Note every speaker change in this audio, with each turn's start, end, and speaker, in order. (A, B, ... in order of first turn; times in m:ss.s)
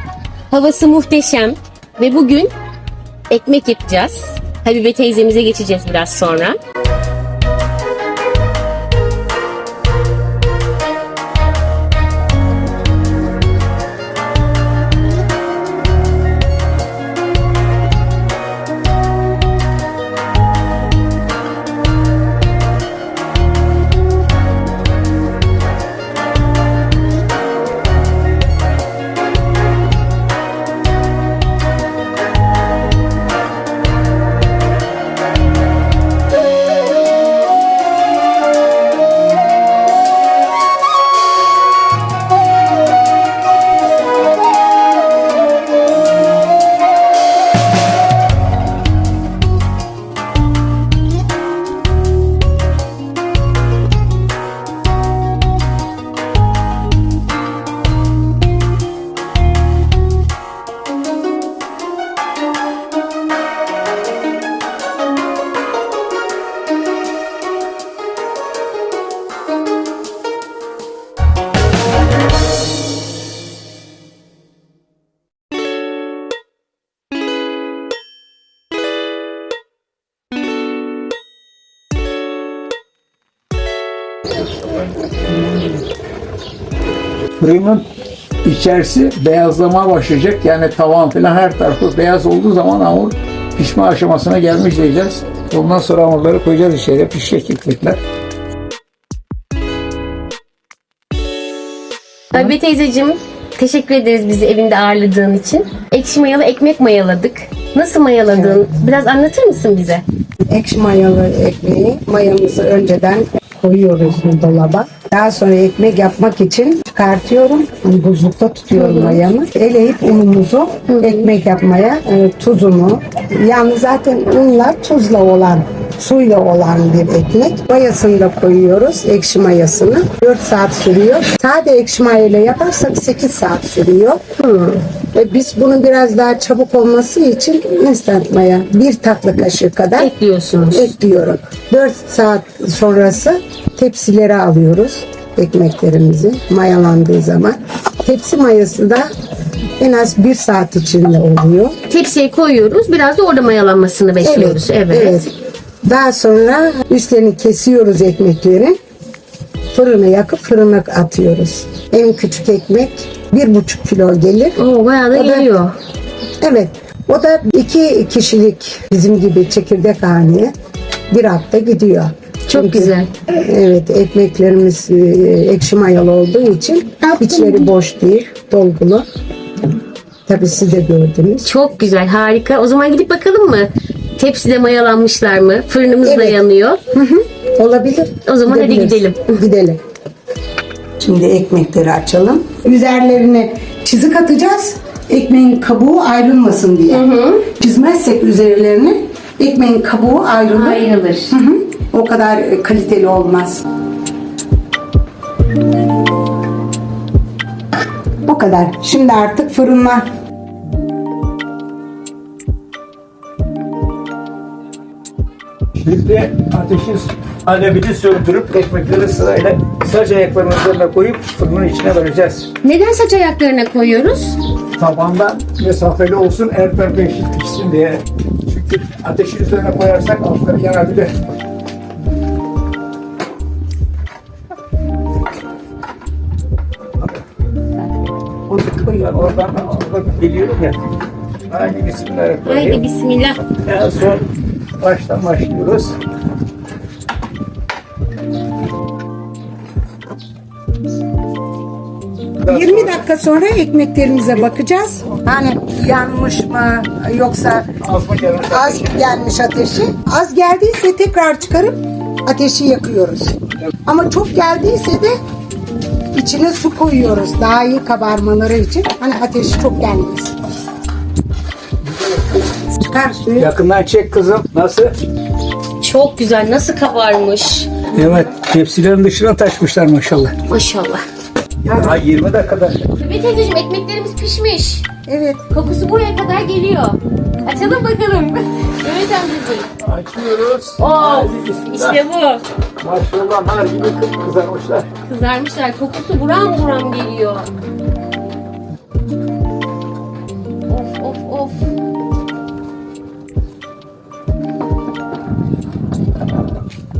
0:00.5-0:02.5 A
0:03.3-0:06.6 A
1:27.4-1:27.8 B
1:28.4-1:38.0 B
1:42.3-1:50.0 A
1:48.3-1:48.7 C
1:50.5-2:14.2 C
1:58.7-1:59.2 A
2:00.9-2:01.3 A
2:14.4-2:14.8 A
2:15.1-2:20.1 C
2:20.0-2:20.9 A
2:20.7-2:29.1 C
2:29.8-2:31.8 C
2:31.9-2:35.2 A
2:34.2-2:38.8 C
2:39.7-2:44.6 C
2:44.6-2:45.8 A
2:45.1-2:45.5 C
2:46.4-2:50.5 C
2:51.1-2:59.0 C
2:52.5-2:53.1 A
3:00.3-3:01.5 C
3:01.4-3:06.8 A
3:06.0-3:09.8 C
3:08.2-3:09.4 A
3:11.0-3:23.6 C
3:16.9-3:17.5 A
3:20.5-3:21.4 A
3:28.2-3:30.0 C
3:35.8-3:42.5 B
3:42.6-3:44.4 A
3:44.8-3:51.2 B
3:58.5-3:59.4 C
3:59.0-4:00.8 B
4:01.5-4:02.8 B
4:02.5-4:03.4 A
4:03.6-4:04.2 B
4:04.8-4:06.0 B
4:12.4-4:13.0 B
4:12.5-4:17.7 C
4:17.8-4:19.0 B
4:18.4-4:25.2 C
4:26.1-4:30.3 C
4:31.9-4:32.2 B
4:32.6-4:33.5 C
4:33.4-4:34.9 B
4:35.8-4:37.9 A
4:37.9-4:40.4 B
4:40.5-4:41.0 A
4:41.6-4:42.9 B
4:41.7-4:42.0 C
4:43.0-4:44.9 A
4:45.1-4:45.5 C
4:45.5-4:49.7 A
4:49.8-4:52.0 B
4:50.8-4:52.4 A
4:52.8-4:54.9 B
4:55.1-4:57.5 A
5:00.7-5:01.7 A